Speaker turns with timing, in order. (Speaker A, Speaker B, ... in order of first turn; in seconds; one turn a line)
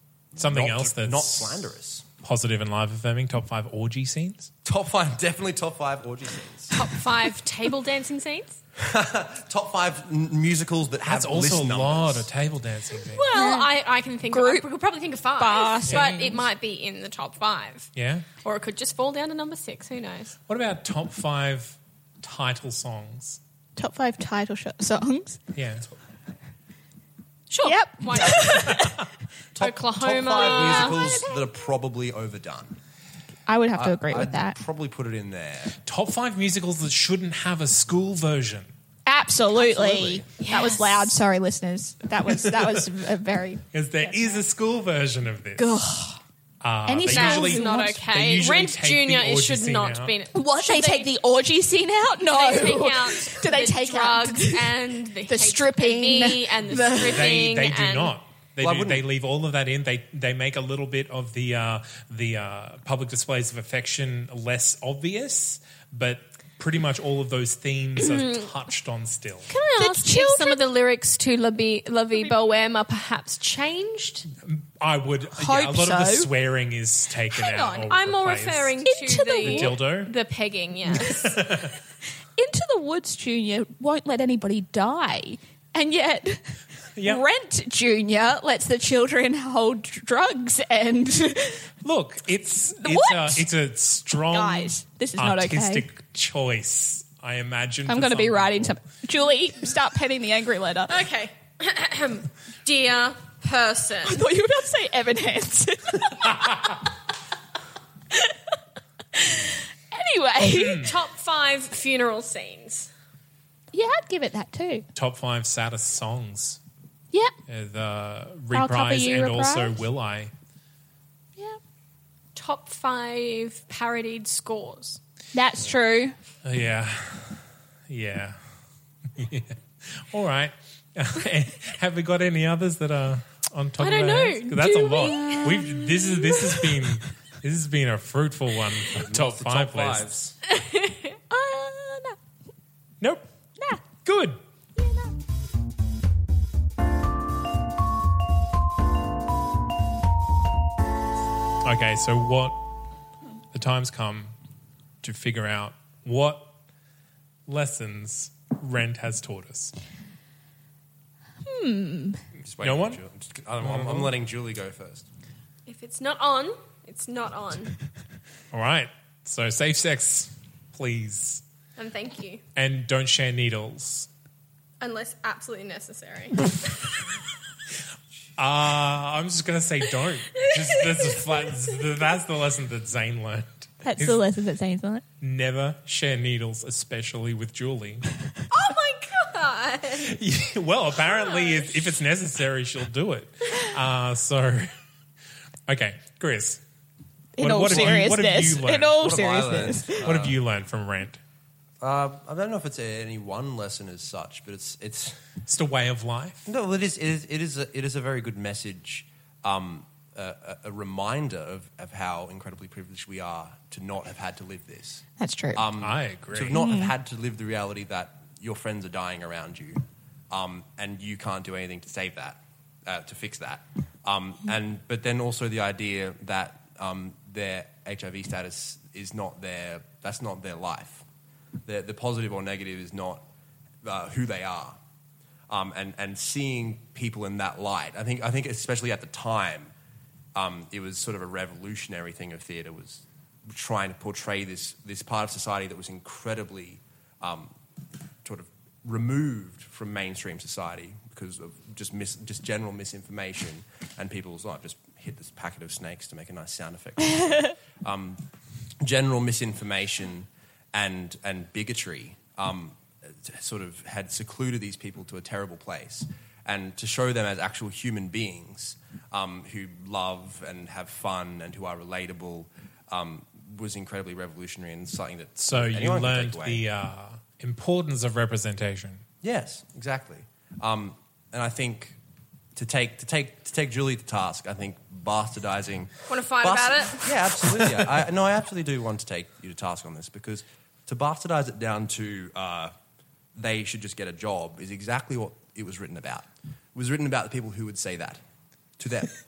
Speaker A: 0.3-2.1
Speaker B: 0.4-4.5
Speaker A: 4.6-6.8
Speaker C: 6.7-8.6
Speaker A: 8.8-12.3
Speaker B: 11.1-13.3
Speaker C: 13.1-17.9
Speaker D: 13.3-13.8
Speaker D: 14.3-14.6
Speaker D: 15.4-16.4
Speaker B: 15.9-16.1
Speaker B: 17.9-18.3
Speaker C: 18.4-20.4
Speaker B: 20.5-23.4
Speaker D: 23.8-25.4
Speaker B: 25.5-25.9
Speaker C: 27.5-28.8
Speaker D: 27.6-29.0
Speaker B: 28.5-29.1
Speaker A: 29.5-32.8
Speaker C: 29.6-31.3
Speaker D: 30.4-31.2
Speaker D: 33.5-34.6
Speaker A: 33.7-35.7
Speaker B: 35.8-38.7
Speaker D: 39.0-44.4
Speaker A: 39.5-40.2
Speaker C: 40.4-41.1
Speaker B: 42.4-42.9
Speaker B: 43.7-45.7
Speaker D: 45.6-46.2
Speaker B: 46.6-50.1
Speaker D: 46.9-48.0
Speaker C: 47.1-51.1
Speaker D: 50.3-57.4
Speaker C: 52.2-58.1
Speaker B: 57.0-69.5
Speaker A: 58.6-59.1
Speaker C: 68.0-68.5
Speaker C: 69.5-74.3
Speaker D: 69.7-70.6
Speaker B: 74.4-78.9
Speaker D: 75.3-76.3
Speaker C: 77.3-81.3
Speaker D: 78.8-79.8
Speaker B: 79.4-80.1
Speaker B: 80.9-81.7
Speaker D: 82.3-91.7
Speaker B: 86.9-87.2
Speaker B: 91.8-98.8
Speaker D: 92.8-93.5
Speaker D: 94.2-95.8
Speaker D: 97.8-101.0
Speaker C: 100.9-104.2
Speaker D: 104.0-106.8
Speaker D: 109.1-110.9
Speaker B: 110.5-110.9
Speaker C: 110.8-112.9
Speaker D: 113.7-114.8
Speaker B: 114.9-116.6
Speaker B: 117.5-120.3
Speaker D: 118.5-119.8
Speaker C: 122.3-125.0
Speaker D: 125.3-126.2
Speaker B: 126.4-128.4
Speaker B: 129.1-140.3
Speaker C: 133.8-135.7
Speaker D: 135.1-136.6
Speaker A: 138.9-140.3
Speaker C: 140.5-141.2
Speaker D: 141.3-142.2
Speaker B: 144.0-144.4
Speaker D: 144.8-145.1
Speaker B: 151.6-152.6
Speaker B: 153.5-154.3
Speaker B: 155.0-156.5
Speaker B: 157.5-159.7
Speaker D: 161.4-162.2
Speaker A: 162.4-165.1
Speaker B: 162.6-163.0
Speaker B: 163.6-164.2
Speaker C: 165.7-167.7
Speaker B: 168.5-171.4
Speaker C: 171.8-172.4
Speaker B: 172.5-174.1
Speaker C: 174.8-176.9
Speaker B: 178.4-184.2
Speaker C: 180.3-182.1
Speaker D: 183.8-185.0
Speaker B: 185.2-188.1
Speaker C: 188.5-190.2
Speaker B: 190.0-194.7
Speaker C: 191.2-191.8
Speaker B: 195.7-196.6
Speaker D: 197.4-200.1
Speaker B: 197.4-199.0
Speaker A: 197.7-198.0
Speaker A: 198.9-200.4
Speaker B: 200.0-201.2
Speaker A: 201.8-205.3
Speaker B: 205.4-206.4
Speaker A: 206.4-215.0
Speaker D: 215.2-215.6
Speaker A: 215.5-231.0
Speaker B: 215.8-216.7
Speaker D: 216.5-216.9
Speaker A: 231.6-233.2
Speaker A: 233.8-234.8
Speaker A: 235.5-239.7
Speaker A: 240.3-247.5
Speaker A: 248.2-258.2
Speaker A: 258.8-276.6
Speaker B: 275.4-279.0
Speaker A: 279.2-282.0
Speaker A: 282.6-292.7
Speaker C: 286.1-287.2
Speaker A: 293.3-298.2
Speaker A: 298.8-299.1